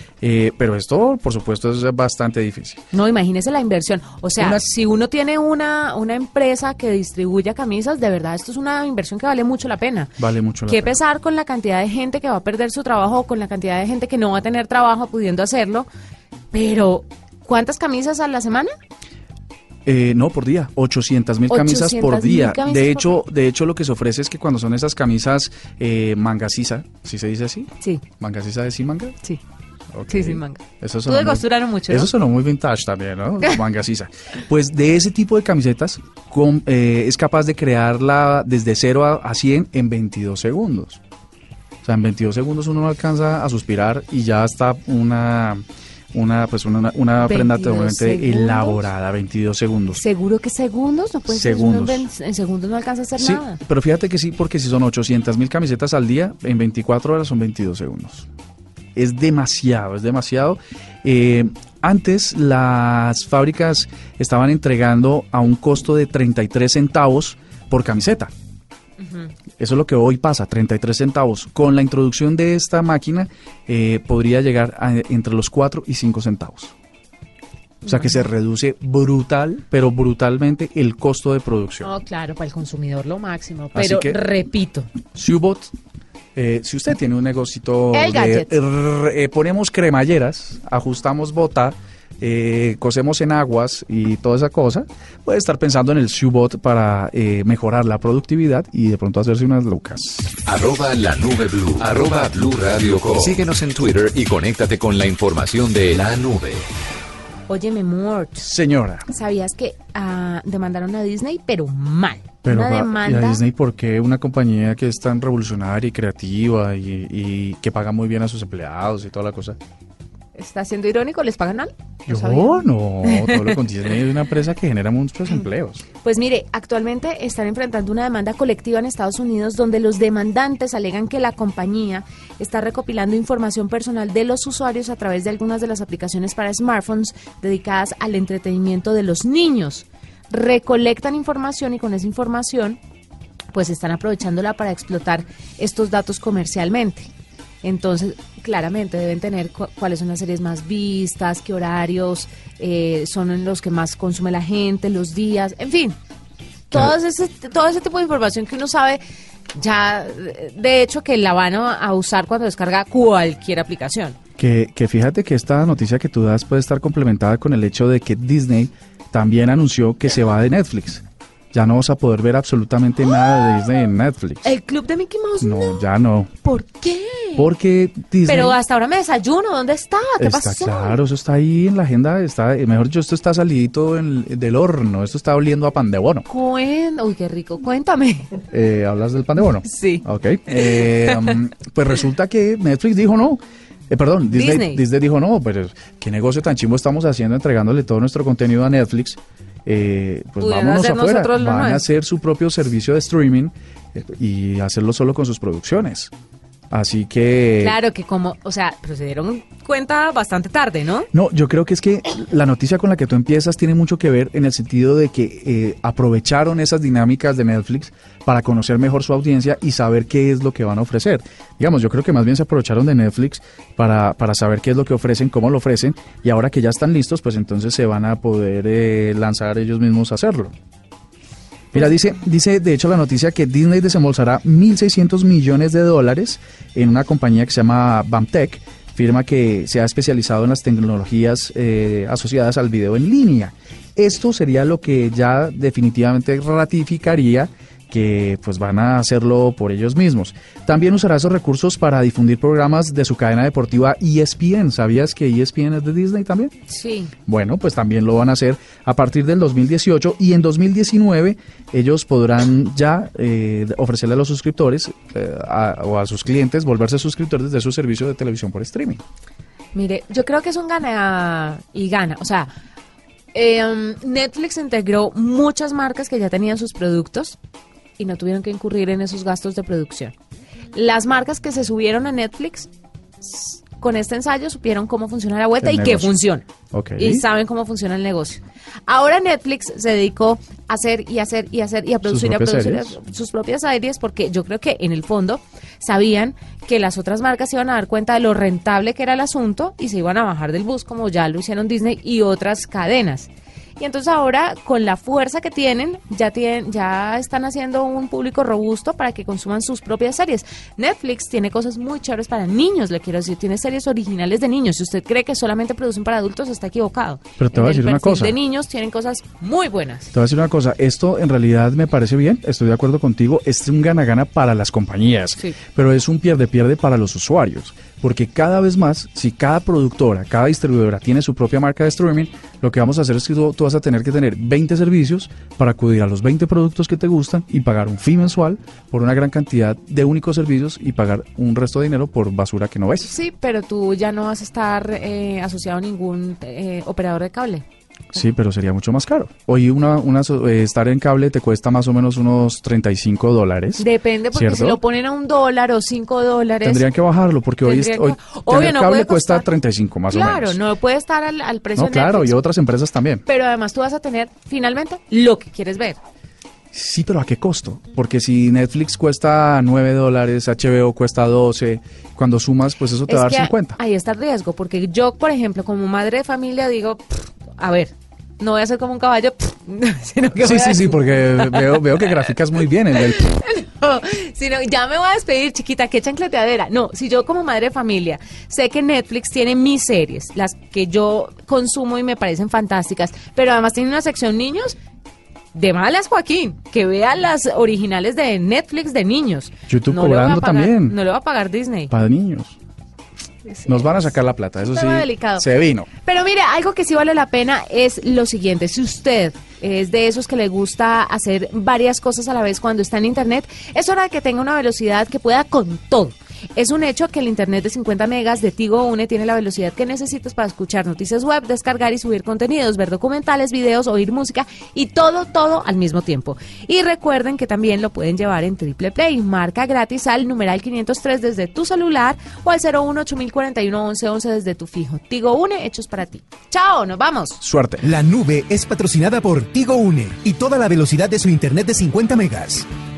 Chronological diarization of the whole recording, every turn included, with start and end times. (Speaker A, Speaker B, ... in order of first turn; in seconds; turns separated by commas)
Speaker A: 0.2-2.8, Speaker B: 2.9-10.1, Speaker A: 4.4-4.6, Speaker A: 10.2-11.0, Speaker B: 10.7-15.9, Speaker B: 16.5-18.7, Speaker A: 19.9-29.2, Speaker B: 21.5-23.2, Speaker A: 29.9-41.0, Speaker B: 30.1-32.1, Speaker A: 41.8-50.0, Speaker B: 47.2-48.9, Speaker B: 50.0-53.6, Speaker A: 51.3-52.1, Speaker A: 53.2-58.3, Speaker A: 59.0-68.3, Speaker B: 69.0-69.3, Speaker A: 69.6-76.7, Speaker B: 77.8-78.2, Speaker A: 77.9-81.9, Speaker B: 81.8-84.9, Speaker A: 83.7-84.2, Speaker A: 85.1-85.7, Speaker A: 86.3-100.3, Speaker B: 87.9-88.6, Speaker C: 100.5-106.7, Speaker B: 107.5-108.5, Speaker A: 108.4-109.1, Speaker B: 109.1-113.4, Speaker A: 112.4-119.6, Speaker B: 120.3-123.5, Speaker A: 122.1-125.8, Speaker B: 126.0-142.8, Speaker B: 143.5-147.1, Speaker B: 147.6-156.0, Speaker B: 156.7-159.0, Speaker B: 159.5-164.2, Speaker A: 164.4-174.5, Speaker B: 174.4-175.9, Speaker A: 175.4-176.3, Speaker B: 176.4-177.5, Speaker A: 177.4-178.6, Speaker B: 178.3-181.0, Speaker A: 180.2-186.3, Speaker B: 186.3-188.3, Speaker A: 188.5-206.1, Speaker B: 189.7-191.2, Speaker B: 194.3-194.8, Speaker B: 200.4-201.8, Speaker A: 206.7-207.8, Speaker B: 207.6-211.1, Speaker A: 211.1-230.5, Speaker A: 231.7-256.5, Speaker B: 256.7-257.1, Speaker A: 257.3-269.0, Speaker B: 269.7-272.5, Speaker B: 273.3-277.4, Speaker B: 278.0-280.1, Speaker B: 280.7-282.7, Speaker B: 283.2-286.5, Speaker A: 285.6-286.1, Speaker A: 286.7-287.2, Speaker B: 287.0-303.3, Speaker A: 292.1-292.9, Speaker B: 303.8-320.1, Speaker A: 317.4-318.4, Speaker A: 320.1-343.1, Speaker B: 343.0-347.6, Speaker A: 348.1-354.8, Speaker B: 353.8-356.9, Speaker A: 356.6-360.6, Speaker B: 357.6-359.5, Speaker B: 360.1-362.4, Speaker A: 361.8-363.2, Speaker B: 363.3-366.0, Speaker A: 366.7-373.8, Speaker B: 373.1-381.9, Speaker A: 380.4-383.4, Speaker B: 382.9-394.8, Speaker B: 395.5-401.9, Speaker A: 399.7-401.0, Speaker A: 401.9-402.6, Speaker B: 403.5-404.1, Speaker A: 403.7-405.9, Speaker B: 404.7-405.4, Speaker B: 406.0-437.4, Speaker A: 437.4-437.9, Speaker D: 437.8-442.7